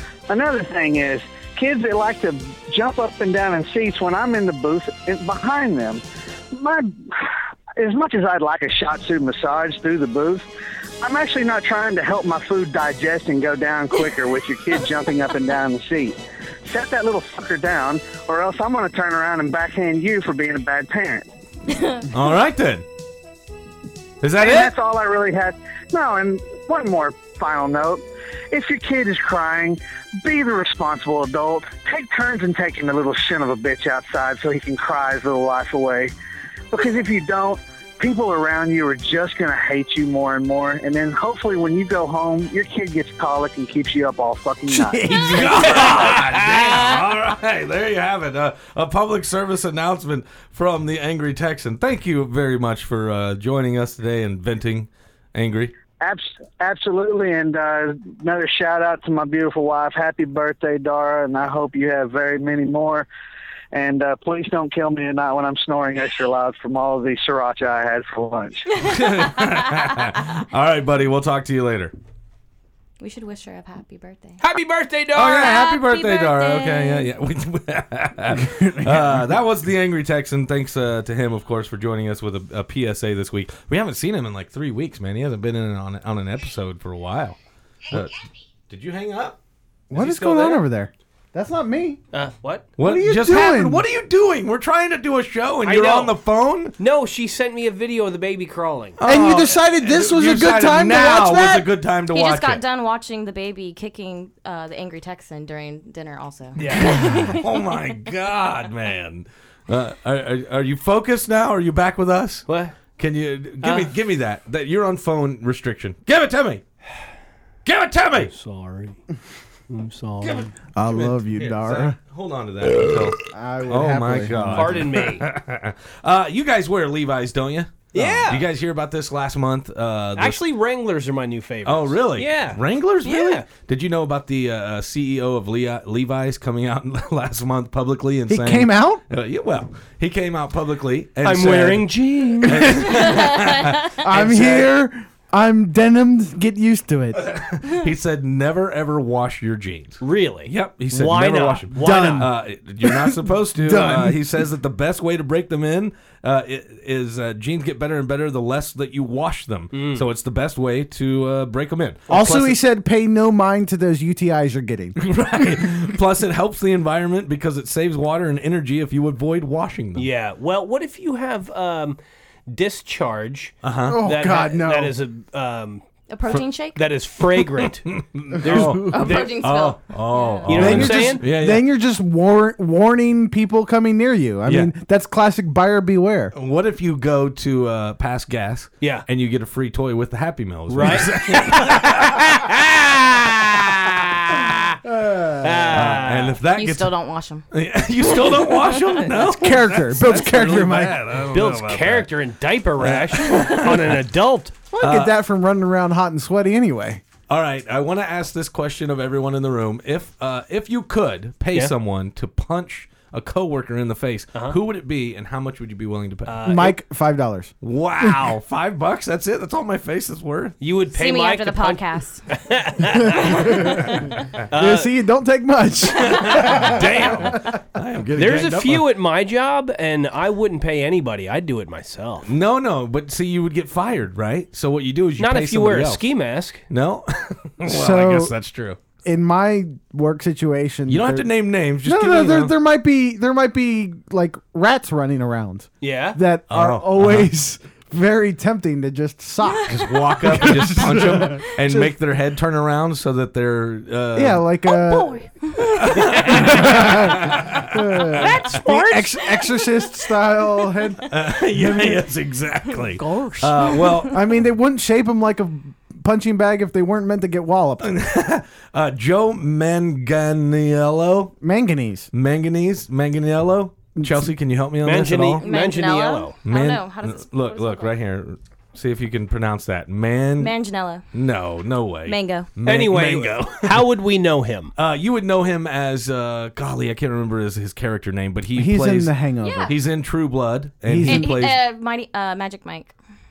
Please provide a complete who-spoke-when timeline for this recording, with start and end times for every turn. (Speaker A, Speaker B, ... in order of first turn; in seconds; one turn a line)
Speaker A: 0.3-10.4
Speaker A: 11.0-21.3
Speaker B: 21.7-22.0
Speaker C: 22.1-22.8
Speaker C: 24.2-24.7
Speaker A: 24.4-36.1
Speaker A: 36.7-45.1
Speaker D: 44.7-46.3
Speaker C: 45.1-55.7
Speaker A: 56.0-63.1
Speaker A: 63.7-68.7
Speaker C: 68.8-71.9
Speaker B: 73.0-74.4
Speaker E: 74.4-75.5
Speaker C: 75.1-87.4
Speaker B: 75.3-77.1
Speaker D: 78.4-79.2
Speaker C: 87.9-89.4
Speaker D: 89.9-92.0
Speaker C: 90.0-90.4
Speaker E: 90.0-90.5
Speaker E: 92.1-92.7
Speaker C: 92.8-96.7
Speaker D: 92.8-93.8
Speaker E: 95.6-96.1
Speaker E: 96.8-99.0
Speaker C: 99.0-102.6
Speaker D: 99.0-101.7
Speaker B: 102.1-107.5
Speaker E: 106.5-107.1
Speaker C: 106.7-112.5
Speaker E: 112.5-112.8
Speaker C: 113.0-116.6
Speaker E: 113.6-113.9
Speaker C: 117.6-118.3
Speaker E: 118.2-119.0
Speaker E: 119.7-120.5
Speaker C: 120.2-130.4
Speaker D: 120.7-122.0
Speaker D: 123.3-124.9
Speaker E: 124.5-125.2
Speaker E: 127.9-128.4
Speaker E: 130.2-133.5
Speaker C: 131.6-144.0
Speaker D: 138.3-139.0
Speaker E: 141.2-143.0
Speaker B: 143.1-143.5
Speaker D: 144.0-147.3
Speaker E: 144.1-144.6
Speaker C: 147.2-162.4
Speaker E: 150.0-152.3
Speaker D: 151.8-154.4
Speaker E: 159.7-160.0
Speaker E: 162.1-162.5
Speaker D: 162.1-165.1
Speaker C: 165.0-170.1
Speaker E: 169.9-175.8
Speaker C: 173.6-174.0
Speaker D: 173.8-175.0
Speaker B: 176.1-176.8
Speaker E: 176.7-179.3
Speaker C: 177.8-181.7
Speaker D: 178.4-178.9
Speaker B: 178.8-180.8
Speaker E: 180.5-181.2
Speaker D: 180.5-186.3
Speaker C: 186.3-192.3
Speaker E: 190.7-194.8
Speaker D: 194.9-195.7
Speaker E: 195.4-196.4
Speaker C: 195.7-196.9
Speaker B: 196.5-197.4
Speaker C: 197.5-202.1
Speaker D: 199.3-201.0
Speaker E: 201.3-204.5
Speaker C: 202.8-203.9
Speaker D: 204.7-207.0
Speaker C: 204.8-205.1
Speaker C: 207.3-216.4
Speaker E: 216.3-216.8
Speaker D: 216.4-218.3
Speaker C: 217.6-220.6
Speaker E: 220.6-223.9
Speaker B: 220.9-222.2
Speaker D: 223.2-223.9
Speaker E: 224.5-224.9
Speaker D: 224.5-226.9
Speaker C: 225.9-228.9
Speaker E: 228.2-232.3
Speaker C: 232.2-236.0
Speaker E: 235.2-236.6
Speaker C: 236.7-238.8
Speaker D: 237.6-238.3
Speaker D: 239.0-241.3
Speaker C: 240.9-242.5
Speaker D: 241.8-251.9
Speaker E: 245.8-246.2
Speaker C: 246.5-247.3
Speaker C: 249.7-254.4
Speaker D: 254.1-255.2
Speaker B: 254.7-256.2
Speaker C: 255.6-258.0
Speaker E: 256.1-256.6
Speaker D: 256.3-261.1
Speaker E: 258.2-259.1
Speaker C: 261.1-264.2
Speaker E: 263.0-263.5
Speaker D: 264.0-267.9
Speaker C: 267.8-271.3
Speaker D: 271.4-272.1
Speaker C: 272.1-275.4
Speaker D: 273.9-274.3
Speaker E: 274.8-276.3
Speaker B: 275.4-277.9
Speaker C: 276.4-280.5
Speaker B: 280.4-281.0
Speaker C: 281.1-283.9
Speaker B: 282.1-282.5
Speaker E: 282.6-284.7
Speaker C: 284.8-289.1
Speaker D: 288.5-289.7
Speaker B: 289.4-289.8
Speaker C: 289.6-291.6
Speaker D: 290.9-291.4
Speaker B: 291.0-292.9